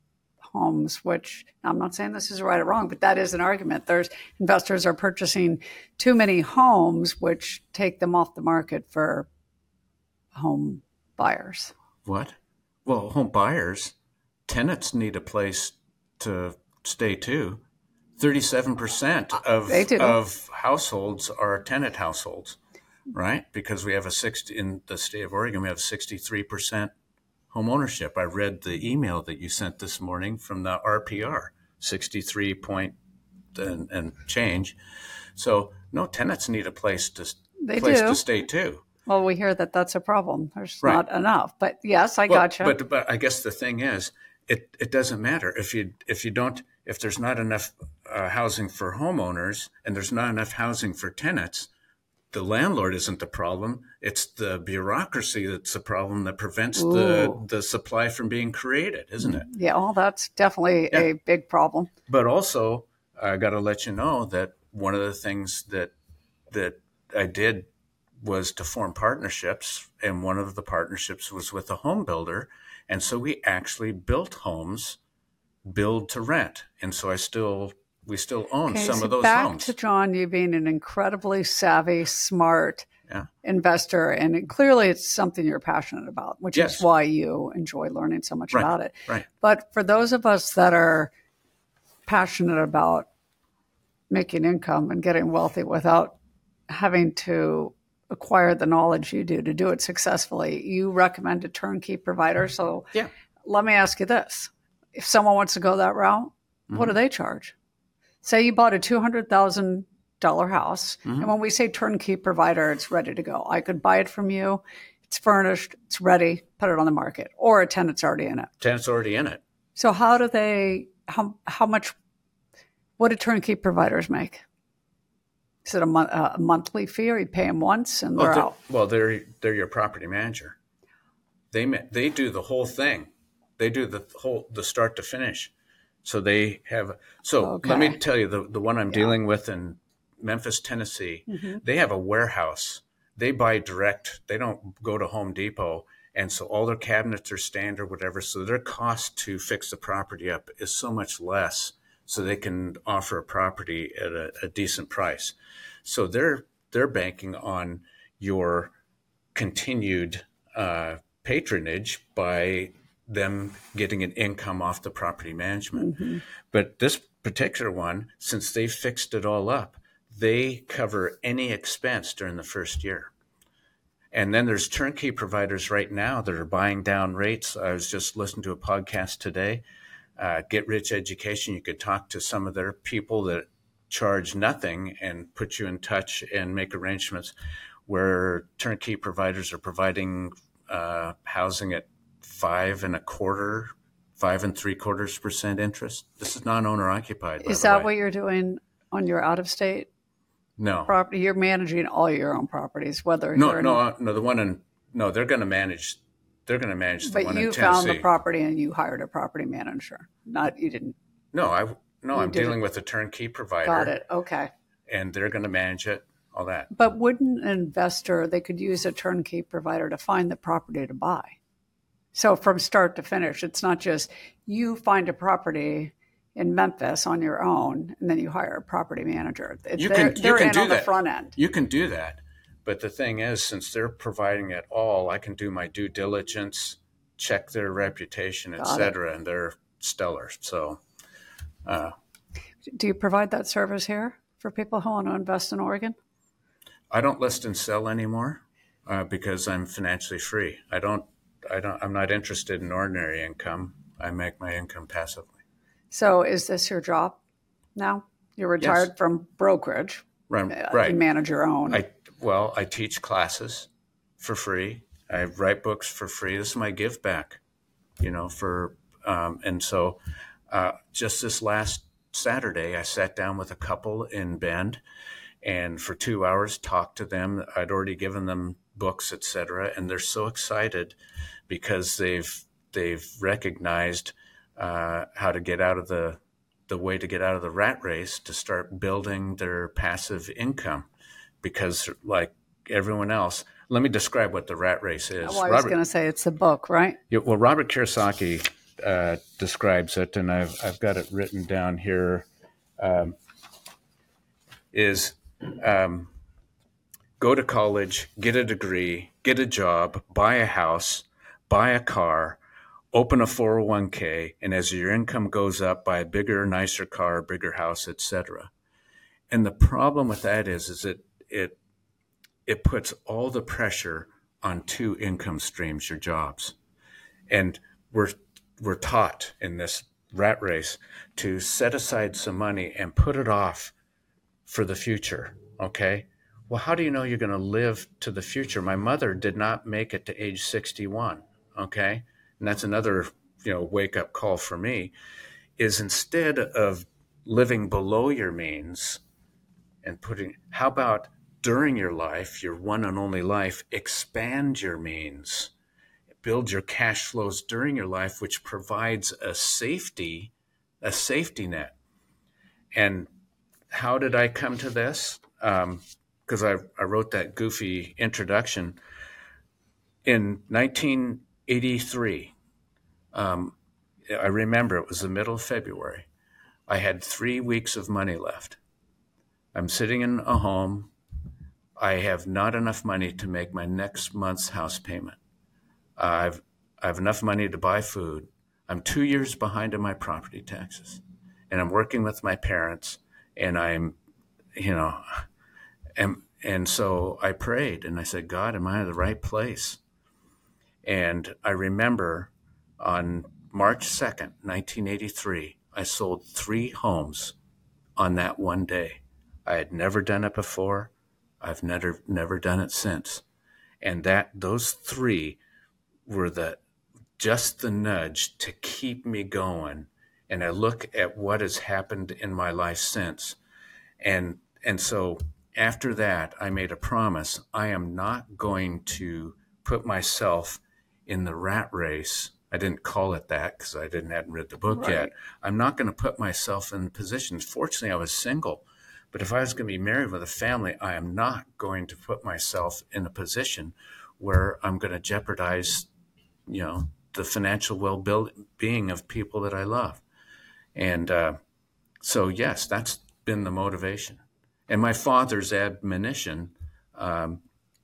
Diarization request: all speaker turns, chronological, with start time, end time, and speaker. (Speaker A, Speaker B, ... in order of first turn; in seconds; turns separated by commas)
Speaker A: 0.5-9.3, Speaker A: 10.3-11.7, Speaker B: 12.0-13.9, Speaker B: 14.5-17.6, Speaker B: 18.2-22.6, Speaker A: 19.7-20.2, Speaker B: 23.1-26.9, Speaker B: 27.5-33.0, Speaker B: 33.5-34.8, Speaker B: 35.4-38.8, Speaker A: 37.6-38.2, Speaker A: 39.1-42.8, Speaker B: 42.3-51.7, Speaker B: 52.3-59.5, Speaker A: 56.8-57.4, Speaker A: 59.2-61.9, Speaker B: 62.1-65.9, Speaker B: 66.5-67.7, Speaker B: 68.2-75.0, Speaker B: 75.6-79.7, Speaker A: 78.7-82.9, Speaker A: 83.4-91.1, Speaker B: 86.5-86.8, Speaker B: 88.5-89.2, Speaker A: 92.1-93.1, Speaker A: 94.1-96.2, Speaker A: 96.7-102.9, Speaker A: 103.4-107.5, Speaker A: 108.2-118.5, Speaker B: 118.6-119.4, Speaker A: 119.8-121.9, Speaker A: 123.0-124.4, Speaker A: 125.6-128.5, Speaker B: 128.2-130.6, Speaker B: 131.5-135.5, Speaker B: 136.0-158.7, Speaker A: 137.4-138.0, Speaker A: 141.3-141.6, Speaker B: 159.3-173.1, Speaker A: 165.8-166.2, Speaker B: 174.1-179.6, Speaker B: 180.2-187.3, Speaker B: 187.9-197.9, Speaker A: 197.4-199.9, Speaker B: 200.6-200.9, Speaker A: 200.9-203.8, Speaker B: 203.3-208.1, Speaker A: 207.0-210.9, Speaker B: 211.3-213.9, Speaker A: 212.1-212.6, Speaker A: 213.6-214.5, Speaker B: 214.9-216.7, Speaker A: 216.7-221.4, Speaker A: 222.1-231.3, Speaker B: 229.8-240.8, Speaker A: 238.6-238.9, Speaker B: 241.6-241.9, Speaker A: 242.7-245.9, Speaker B: 246.9-255.3, Speaker A: 255.9-257.2, Speaker A: 257.8-261.8, Speaker B: 258.6-258.9, Speaker B: 260.3-261.0, Speaker B: 261.7-267.4, Speaker B: 268.0-274.8, Speaker B: 275.4-280.9, Speaker B: 281.5-290.9, Speaker B: 291.4-295.8, Speaker A: 295.2-297.0, Speaker B: 297.1-302.3, Speaker B: 302.8-303.1, Speaker B: 304.7-306.1, Speaker B: 307.2-312.4, Speaker B: 312.9-318.5, Speaker B: 319.3-321.6, Speaker B: 322.4-326.5, Speaker B: 327.3-333.7, Speaker B: 334.4-344.9, Speaker B: 345.6-349.0, Speaker B: 349.8-355.5, Speaker B: 356.2-361.8, Speaker B: 362.7-363.1, Speaker B: 363.7-368.8, Speaker B: 370.0-372.3, Speaker B: 373.1-373.6, Speaker B: 374.1-376.1, Speaker B: 376.7-378.6, Speaker B: 379.5-380.9, Speaker B: 381.8-385.2, Speaker B: 386.0-393.9, Speaker B: 394.5-395.2, Speaker B: 395.9-399.8, Speaker B: 400.8-407.3, Speaker B: 408.0-413.2, Speaker B: 413.8-415.4, Speaker B: 416.1-416.6, Speaker B: 417.2-423.4, Speaker B: 424.0-445.9, Speaker A: 434.8-435.1, Speaker B: 446.5-450.0, Speaker B: 450.7-451.4, Speaker B: 452.0-457.4